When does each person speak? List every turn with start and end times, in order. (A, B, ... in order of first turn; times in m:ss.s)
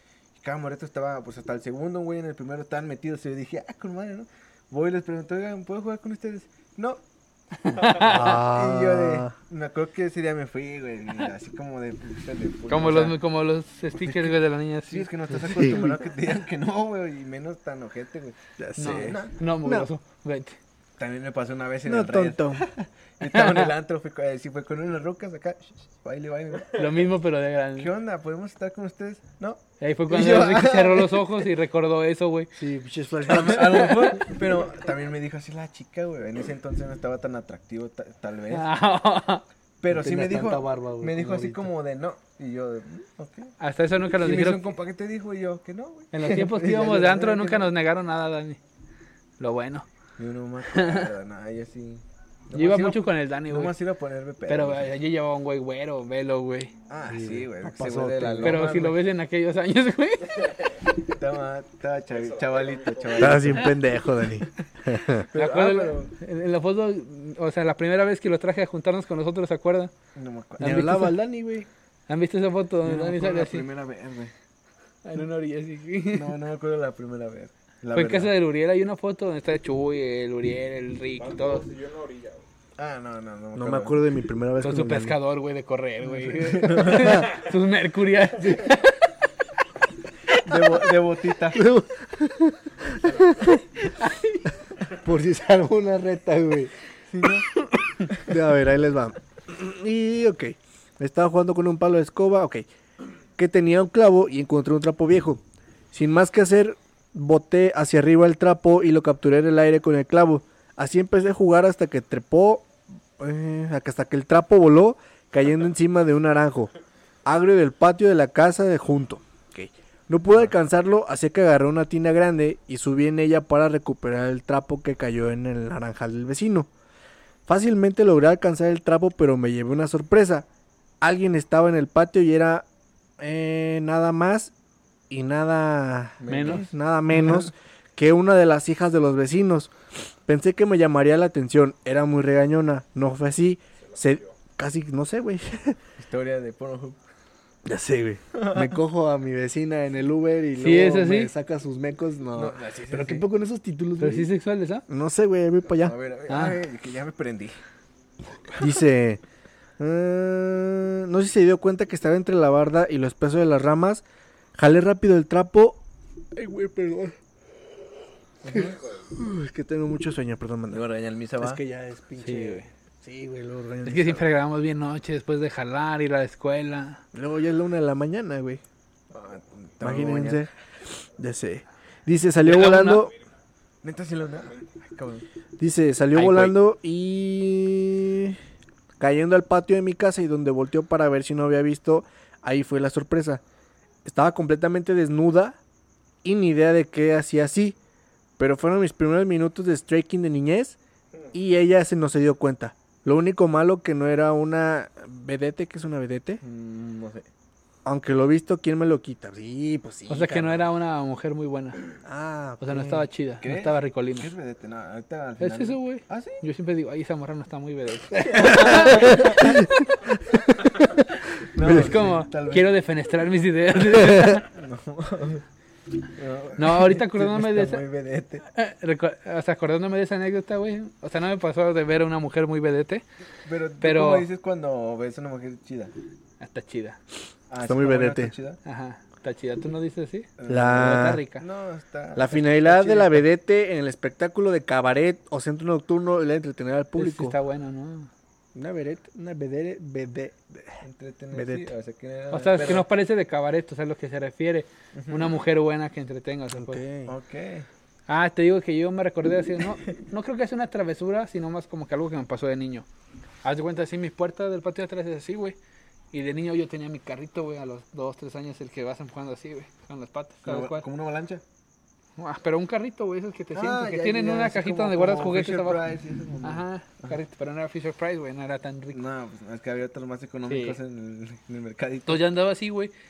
0:00.4-0:07.0 A
0:07.6-0:08.2 B
0:07.7-0:13.2 A
0:07.9-0:09.3 C
0:12.7-0:15.1 B
0:14.0-0:19.3 A
0:15.3-0:16.0 C
0:18.6-0:19.9 C
0:18.8-0:20.6 B
0:21.0-0:27.0 A
0:21.8-0:22.6 C
0:23.2-0:23.7 B
0:26.7-0:27.9 B
0:27.8-0:31.4 A
0:29.8-0:32.5 B
0:32.6-0:34.2 C
0:33.3-0:38.7 A
0:38.5-0:39.4 B
0:39.8-0:43.5 A
0:39.9-0:41.7 C
0:43.6-0:44.7 B
0:44.1-0:47.7 A
0:46.1-0:48.6 B
0:49.4-0:49.8 B
0:50.2-0:54.9 A
0:50.7-0:51.1 B
0:52.5-0:53.7 B
0:54.5-0:56.7 B
0:56.9-0:59.0 A
0:57.1-0:58.7 C
0:58.4-1:00.9 B
1:01.1-1:03.8 A
1:02.1-1:03.5 D
1:03.2-1:05.3 C
1:05.1-1:06.1 A
1:05.3-1:09.9 B
1:10.1-1:10.8 A
1:10.6-1:11.2 B
1:10.6-1:11.7 C
1:12.1-1:13.6 B
1:12.8-1:14.3 A
1:15.0-1:16.3 B
1:16.1-1:18.3 A
1:17.9-1:21.7 B
1:21.2-1:22.4 D
1:22.8-1:24.0 A
1:23.5-1:25.2 C
1:24.6-1:29.1 B
1:26.1-1:27.3 A
1:26.7-1:27.3 C
1:30.4-1:31.6 A
1:31.5-1:33.6 C
1:33.9-1:34.4 B
1:34.9-1:36.7 C
1:37.1-1:38.2 A
1:38.2-1:42.7 C
1:43.4-1:45.4 C
1:45.9-1:56.7 C
1:57.2-2:06.7 C
2:07.5-2:10.5 C
2:11.0-2:12.6 C
2:13.2-2:14.5 C
2:15.1-2:19.7 C
2:16.2-2:16.7 A
2:16.3-2:16.6 B
2:20.2-2:25.8 C
2:23.8-2:24.3 D
2:26.0-2:27.0 A
2:27.6-2:34.3 C
2:28.3-2:28.7 A
2:30.6-2:31.3 B
2:32.3-2:33.3 A
2:34.0-2:34.8 B
2:34.9-2:35.9 C
2:35.8-2:37.6 A
2:36.3-2:36.6 B
2:38.6-2:39.2 C
2:39.8-2:44.0 C
2:44.6-2:45.8 C
2:46.3-2:47.1 C
2:48.4-2:48.8 A
2:48.4-2:50.8 C
2:48.5-2:49.1 D
2:50.7-2:51.6 A
2:51.4-2:54.3 C
2:52.2-2:52.7 B
2:53.8-2:57.0 B
2:57.1-2:58.6 C
2:59.1-3:00.4 A
2:59.8-3:03.1 C
3:02.4-3:03.1 B
3:03.8-3:05.2 A
3:05.6-3:08.4 C
3:06.1-3:06.5 B
3:09.0-3:13.4 C
3:14.0-3:15.6 C
3:16.2-3:17.8 C
3:18.4-3:20.8 C
3:21.3-3:26.4 C
3:26.4-3:27.3 A
3:27.8-3:30.6 C
3:30.1-3:31.8 B
3:32.0-3:33.1 C
3:32.6-3:34.3 B
3:33.4-3:36.4 A
3:35.4-3:39.4 B
3:38.1-3:42.0 C
3:38.3-3:39.6 A
3:41.5-3:42.7 A
3:41.6-3:44.5 B
3:43.9-3:45.4 A
3:46.2-3:48.4 A
3:46.6-3:47.8 B
3:48.5-3:53.0 B
3:53.4-3:55.9 A
3:53.8-3:54.2 B
3:56.4-3:57.0 B
3:57.5-3:58.6 A
3:57.6-3:58.3 C
3:58.6-4:01.4 B
4:00.4-4:03.2 A
4:00.5-4:01.2 C
4:02.1-4:07.4 C
4:07.0-4:08.1 B
4:08.5-4:10.8 C
4:10.8-4:12.8 A
4:11.3-4:11.7 C
4:12.3-4:16.8 B
4:14.9-4:15.4 A
4:16.5-4:17.1 C
4:17.1-4:17.7 A
4:18.1-4:22.8 B
4:23.4-4:25.6 B
4:26.1-4:30.9 B
4:30.4-4:31.4 A
4:32.2-4:35.8 B
4:33.5-4:37.2 A
4:36.4-4:39.0 B
4:38.9-4:42.2 A
4:40.5-4:40.8 B
4:42.0-4:42.9 B